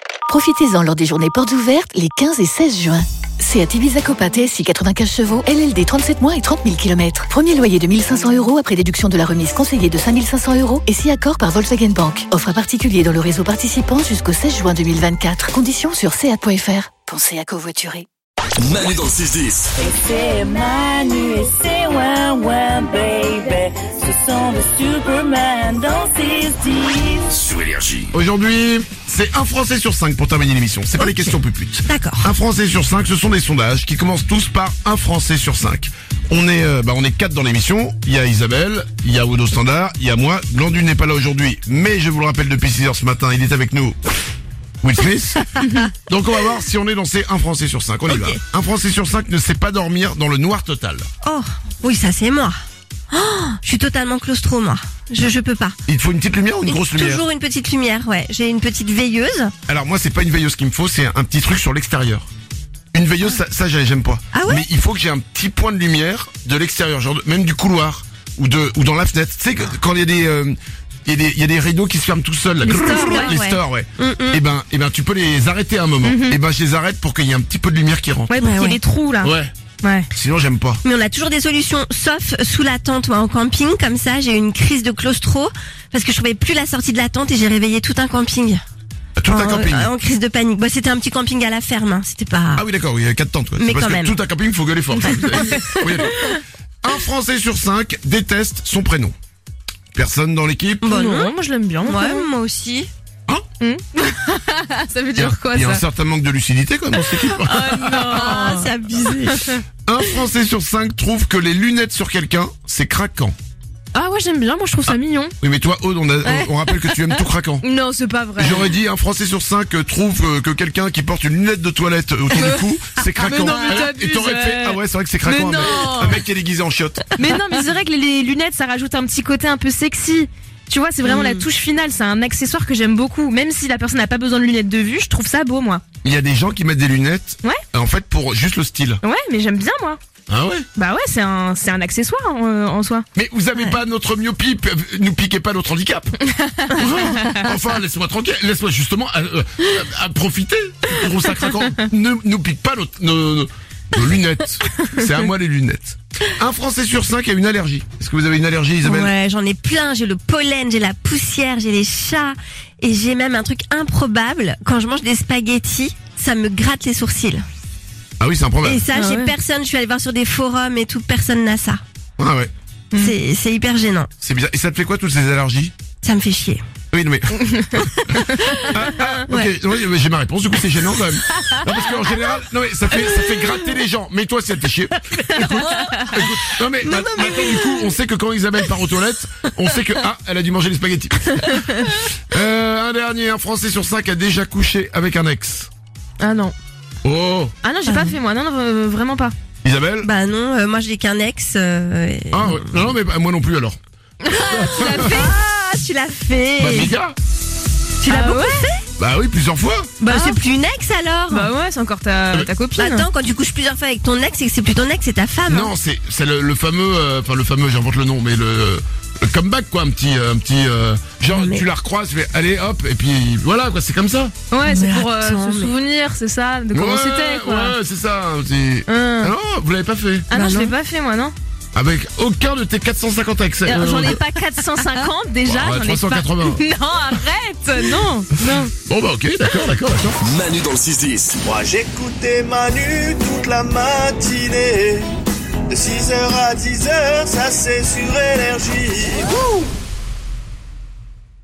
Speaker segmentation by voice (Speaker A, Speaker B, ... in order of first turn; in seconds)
Speaker A: 0.3-18.1
Speaker B: 18.6-19.7, 27.3-28.1, 240.2-241.4
Speaker C: 19.8-27.3
Speaker D: 28.1-44.0, 44.8-51.1, 55.9-57.2, 59.7-62.3, 62.9-78.3, 79.2-79.5, 80.1-80.8, 89.2-89.9, 92.5-96.1, 96.8-99.1, 99.9-100.8, 105.1-108.3, 109.8-113.3, 114.9-117.6, 118.3-127.0, 136.0-139.0, 140.3-140.7, 143.1-146.1, 146.7-159.1, 168.2-168.8, 172.2-172.5, 174.2-175.7, 176.9-191.5, 192.3-195.7, 197.0-197.5, 199.6-200.1, 202.3-203.8, 204.5-205.3, 206.6-207.2, 209.0-209.9, 215.5-224.3, 226.7-230.2, 231.8-234.2, 235.4-236.6, 238.8-240.2
Speaker E: 31.0-31.3, 31.9-32.3, 48.1-48.4, 51.2-52.5, 53.1-55.8, 56.6-59.5, 64.3-64.6, 72.7-74.4, 78.4-78.8, 80.8-88.6, 89.3-92.6, 93.6-94.2, 95.1-96.1, 100.8-101.3, 101.8-102.9, 107.9-109.6, 116.3-117.2, 123.4-123.8, 131.0-131.4, 158.8-167.4, 168.6-171.8, 172.9-174.1, 176.0-176.6, 178.4-179.5, 181.3-181.7, 183.0-183.5, 185.2-188.0, 191.4-192.1, 197.8-198.1, 200.0-202.8, 204.2-206.9, 208.0-208.8, 210.0-211.5, 212.8-215.7, 221.3-221.6, 224.6-225.7, 230.3-230.7
Speaker F: 72.6-73.4, 76.0-76.4, 78.3-80.1, 95.1-95.7, 100.9-102.3, 103.6-105.8, 107.1-109.5, 113.9-115.3, 117.6-118.8, 122.3-126.2, 127.2-135.8, 139.0-140.0, 140.8-143.0, 146.3-147.4, 154.8-155.1, 168.9-169.3, 172.9-173.2, 177.4-178.5, 185.4-186.1, 196.2-196.5, 197.6-199.3, 208.1-208.6, 210.1-210.4, 211.3-213.1, 224.5-227.8, 228.9-229.3, 230.3-231.3, 233.6-238.7
Speaker G: 241.4-245.1, 245.7-249.3